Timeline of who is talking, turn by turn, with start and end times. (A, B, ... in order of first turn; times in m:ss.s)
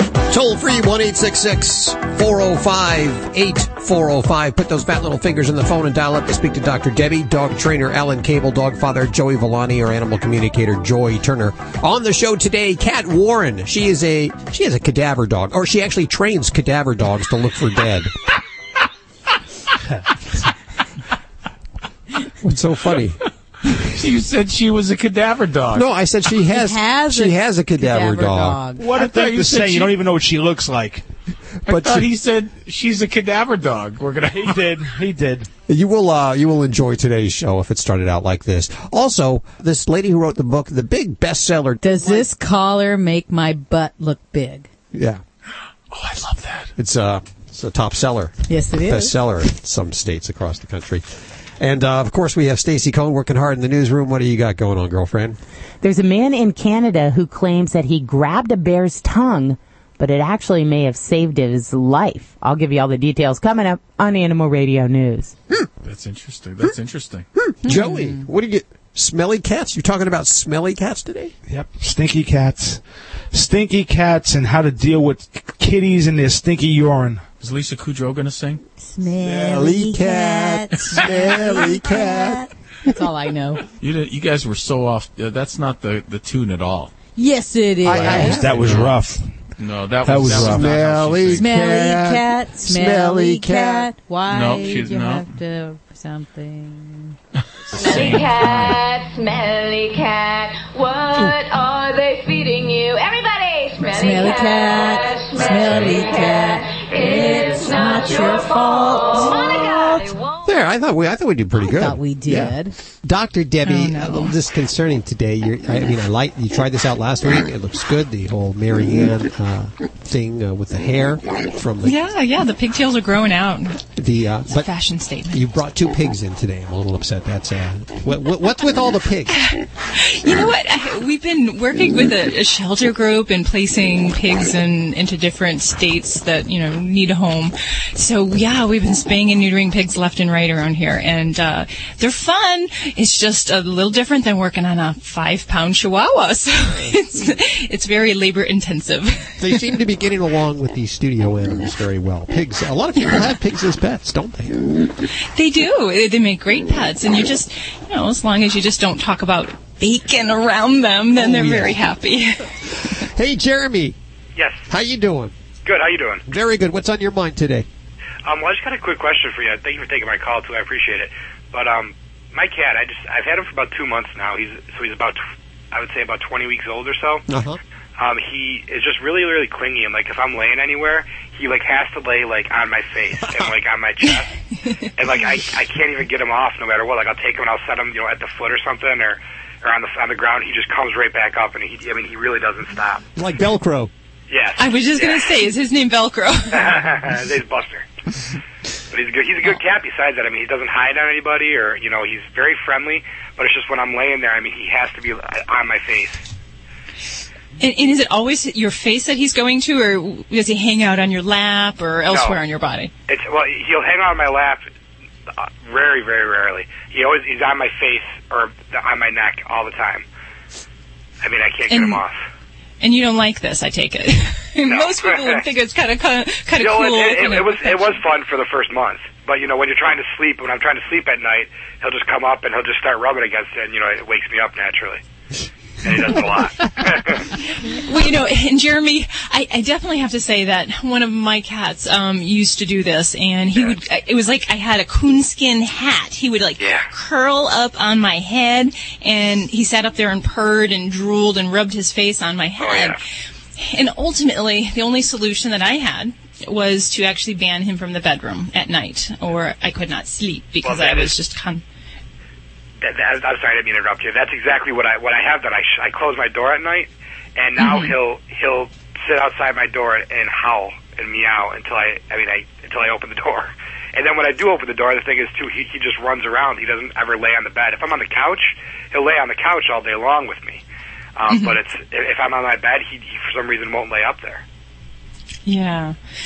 0:00.3-0:18.1 A
0:22.4-0:23.2 A
0:23.7-0:25.9 B
0:25.7-0:28.6 A
0:26.5-0:28.9 C
0:28.8-0:30.0 B
0:28.9-0:31.0 D
0:31.6-0:32.0 A
0:31.7-0:34.9 B
0:34.3-0:35.5 D
0:35.7-0:42.3 A
0:41.8-0:44.7 C
0:44.9-0:45.2 A
0:45.9-0:46.7 B
0:46.8-0:51.0 A
0:48.5-0:49.2 C
0:51.6-0:55.4 A
0:55.8-1:05.3 E
1:05.8-1:07.2 B
1:07.4-1:11.3 A
1:07.7-1:08.2 C
1:11.5-1:12.8 D
1:13.3-1:17.2 D
1:17.4-1:18.6 B
1:18.8-1:23.6 C
1:19.2-1:22.5 A
1:23.8-1:26.9 B
1:27.2-1:28.5 C
1:27.8-1:28.7 A
1:28.0-1:29.0 B
1:28.4-1:29.2 D
1:29.6-1:31.4 B
1:30.0-1:30.7 D
1:30.1-1:33.9 A
1:31.4-1:37.2 C
1:34.3-1:35.2 B
1:37.7-1:38.8 B
1:37.7-1:50.5 F
1:43.8-1:50.0 C
1:50.4-2:02.0 A
1:51.6-1:52.7 C
1:53.6-1:54.3 G
2:01.8-2:03.8 G
2:04.0-2:04.7 A
2:04.5-2:05.5 G
2:05.3-2:09.3 A
2:09.3-2:29.8 G
2:29.4-2:34.6 A
2:35.3-2:42.4 G
2:41.1-2:41.8 A
2:42.8-2:43.9 A
2:44.4-2:44.6 H
2:44.7-2:45.3 A
2:45.6-2:46.2 H
2:46.3-2:47.6 A
2:48.2-2:55.2 H
2:55.7-2:57.2 H
2:57.3-2:57.6 A
2:58.0-3:04.3 H
3:04.1-3:04.7 G
3:05.0-3:13.0 H
3:13.2-3:13.9 A
3:14.3-3:15.4 H
3:14.6-3:16.6 G
3:16.5-3:17.8 H
3:18.9-3:26.2 H
3:27.6-3:32.9 G
3:32.0-3:32.4 H
3:33.1-3:34.6 H
3:35.4-3:40.0 H
3:41.2-3:42.2 H
3:41.7-3:42.0 G
3:42.8-3:48.0 G
3:44.7-3:45.4 H
3:46.6-3:55.0 H
3:55.8-3:57.2 H
3:57.6-4:13.0 G
4:06.6-4:06.9 H
4:12.6-4:13.0 H
4:13.6-4:21.6 G
4:20.6-4:21.2 H
4:22.8-4:40.6 H
4:27.6-4:28.0 G
4:41.2-4:44.4 H
4:41.3-4:41.6 G
4:45.4-4:46.0 G